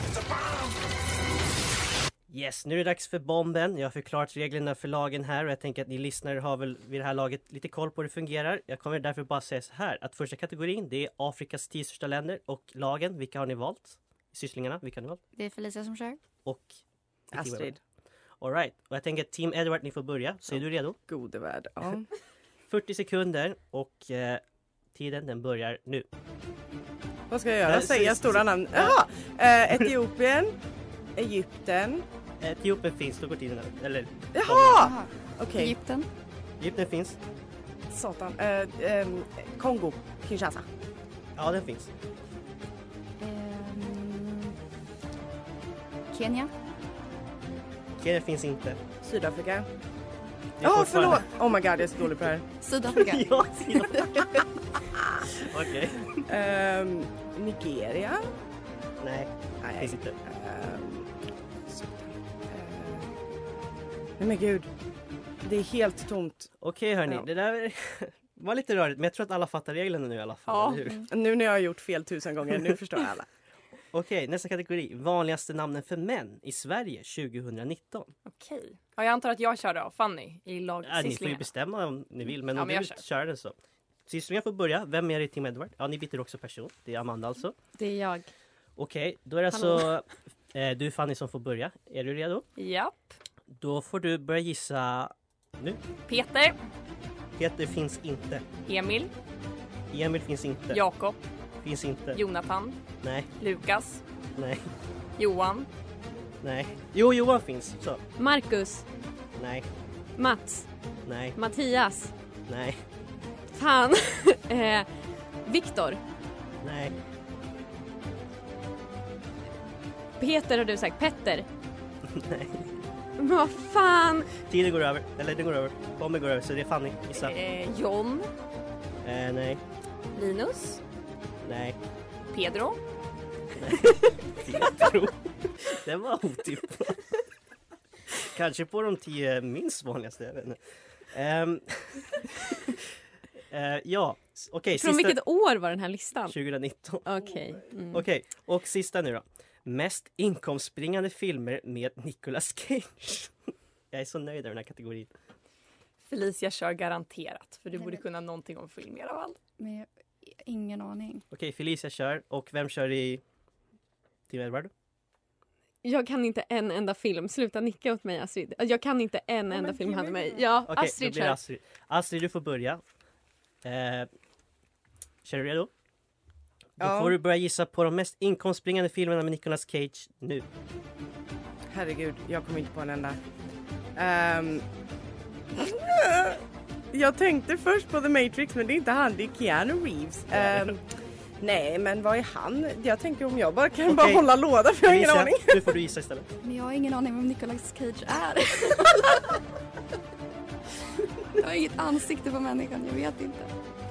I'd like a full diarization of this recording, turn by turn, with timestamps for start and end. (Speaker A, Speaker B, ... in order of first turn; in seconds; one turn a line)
Speaker A: 2.3-15.2
Speaker B: 15.3-16.2
Speaker A: 16.4-16.8
Speaker A: 17.3-17.7
Speaker C: 17.3-17.8
Speaker A: 18.4-21.0
Speaker C: 20.5-22.1
Speaker A: 22.7-24.4
Speaker A: 24.9-26.1
Speaker C: 27.3-30.6
Speaker A: 27.6-29.0
Speaker C: 31.1-32.0
Speaker A: 32.4-34.9
Speaker C: 34.3-35.7
Speaker B: 34.7-36.1
Speaker A: 36.6-37.2
Speaker C: 37.9-40.7
Speaker A: 41.4-41.9
Speaker B: 43.2-44.5
Speaker B: 46.1-46.5
Speaker A: 48.0-48.8
Speaker C: 49.0-49.7
Speaker A: 50.6-51.3
Speaker C: 50.6-52.5
Speaker B: 52.6-54.0
Speaker A: 52.9-54.4
Speaker A: 55.4-56.2
Speaker C: 56.3-58.3
Speaker A: 59.0-60.1
Speaker C: 59.6-61.1
Speaker C: 61.7-63.1
Speaker C: 64.2-64.7
Speaker C: 65.4-66.5
Speaker A: 66.6-71.0
Speaker D: 70.5-70.9
Speaker C: 71.1-73.3
Speaker A: 73.9-78.1
Speaker D: 78.3-81.5
Speaker A: 80.8-83.5
Speaker D: 82.5-83.0
Speaker A: 84.0-87.5
Speaker E: 87.7-88.3
Speaker A: 88.8-92.5
Speaker E: 89.5-89.9
Speaker D: 92.6-93.2
Speaker A: 93.6-95.8
Speaker D: 96.1-96.5
Speaker A: 97.3-98.4
Speaker D: 98.7-99.1
Speaker A: 99.9-100.8
Speaker D: 100.7-101.2
Speaker A: 101.6-102.2
Speaker D: 102.1-102.8
Speaker A: 103.0-103.3
Speaker D: 103.4-104.0
Speaker A: 104.3-104.7
Speaker D: 105.2-105.7
Speaker A: 106.4-108.0
Speaker E: 108.2-108.8
Speaker A: 109.3-109.7
Speaker E: 110.2-110.7
Speaker A: 111.0-111.3
Speaker E: 111.3-112.1
Speaker A: 112.5-112.8
Speaker E: 113.5-114.9
Speaker E: 115.4-116.0
Speaker A: 116.6-117.0
Speaker E: 120.2-121.5
Speaker A: 122.1-122.7
Speaker E: 123.2-124.3
Speaker A: 124.4-127.3
Speaker D: 127.1-128.3
Speaker A: 129.0-129.6
Speaker D: 130.1-130.8
Speaker A: 131.4-131.8
Speaker D: 132.3-132.8
Speaker A: 133.6-137.2
Speaker A: 138.2-142.8
Speaker A: 143.5-145.2
Speaker E: 144.8-146.3
Speaker A: 146.3-147.1
Speaker E: 147.0-148.0
Speaker A: 147.9-153.3
Speaker A: 153.9-155.1
Speaker D: 156.0-159.4
Speaker B: 157.7-158.0
Speaker B: 159.6-161.2
Speaker A: 161.3-163.2
Speaker A: 164.3-164.7
Speaker E: 165.8-171.4
Speaker C: 169.5-170.5
Speaker A: 170.7-172.8
Speaker A: 173.6-174.1
Speaker A: 175.2-175.7
Speaker A: 176.8-180.4
Speaker C: 176.8-177.2
Speaker C: 181.7-183.2
Speaker C: 183.9-184.7
Speaker C: 185.6-186.4
Speaker C: 186.9-190.8
Speaker A: 190.3-190.7
Speaker C: 191.4-195.7
Speaker A: 193.8-196.3
Speaker B: 196.4-199.4
Speaker B: 201.4-203.5